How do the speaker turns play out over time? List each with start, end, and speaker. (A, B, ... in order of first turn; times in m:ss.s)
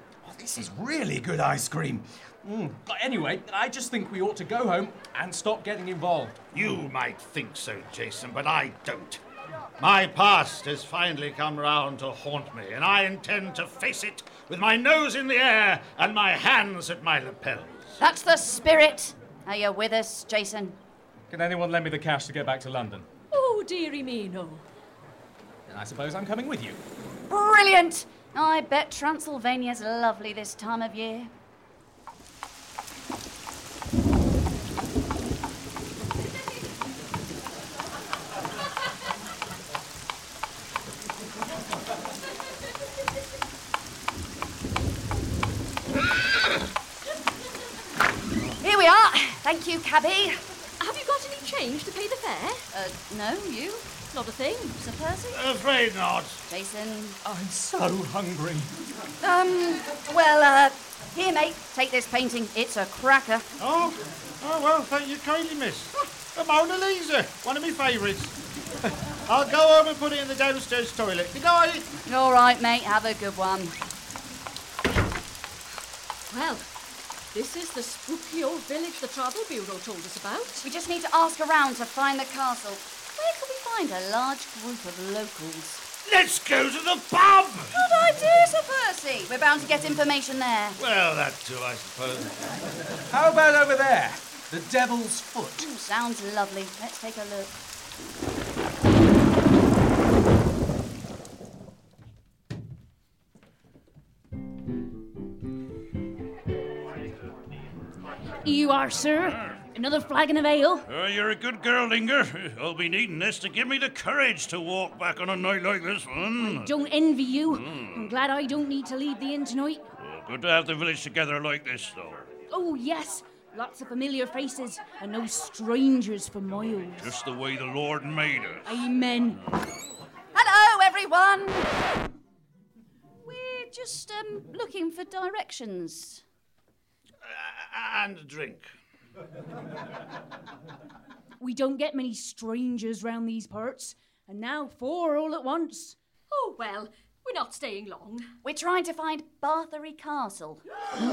0:00.2-0:06.4 A
0:06.5-0:09.2 B
0:09.8-0:18.0 B
0:18.0-0:20.8 C
0:21.3-0:23.1 A
0:23.3-0:24.6 D
0:25.7-0:26.8 A
0:27.3-0:31.3 C
0:48.6-0:50.4 C
0:50.8-0:52.6 D
0:52.7-0:53.8 C
0:54.1-0:54.8 D
0:54.8-0:55.4 C
0:55.3-0:56.4 B
0:56.5-0:57.2 C
0:57.2-0:58.7 A
0:59.2-1:03.5 C
1:03.6-1:11.9 B
1:12.1-1:13.8 C
1:16.3-1:16.7 D
1:17.3-1:20.7 D
1:20.6-1:25.8 C
1:26.0-1:27.8 B
1:27.7-1:30.8 C
1:30.8-1:32.4 B
1:33.1-1:35.7 A
1:35.6-1:37.5 C
1:48.4-1:50.9 E
1:50.9-1:56.7 F
1:56.4-1:59.9 E
1:57.5-1:58.2 F
2:00.0-2:02.3 F
2:02.5-2:07.2 E
2:07.0-2:08.8 F
2:08.6-2:09.4 E
2:10.3-2:11.7 C
2:13.2-2:16.2 C
2:17.2-2:18.7 B
2:21.4-2:26.0 E
2:26.3-2:28.3 D
2:28.4-2:30.6 C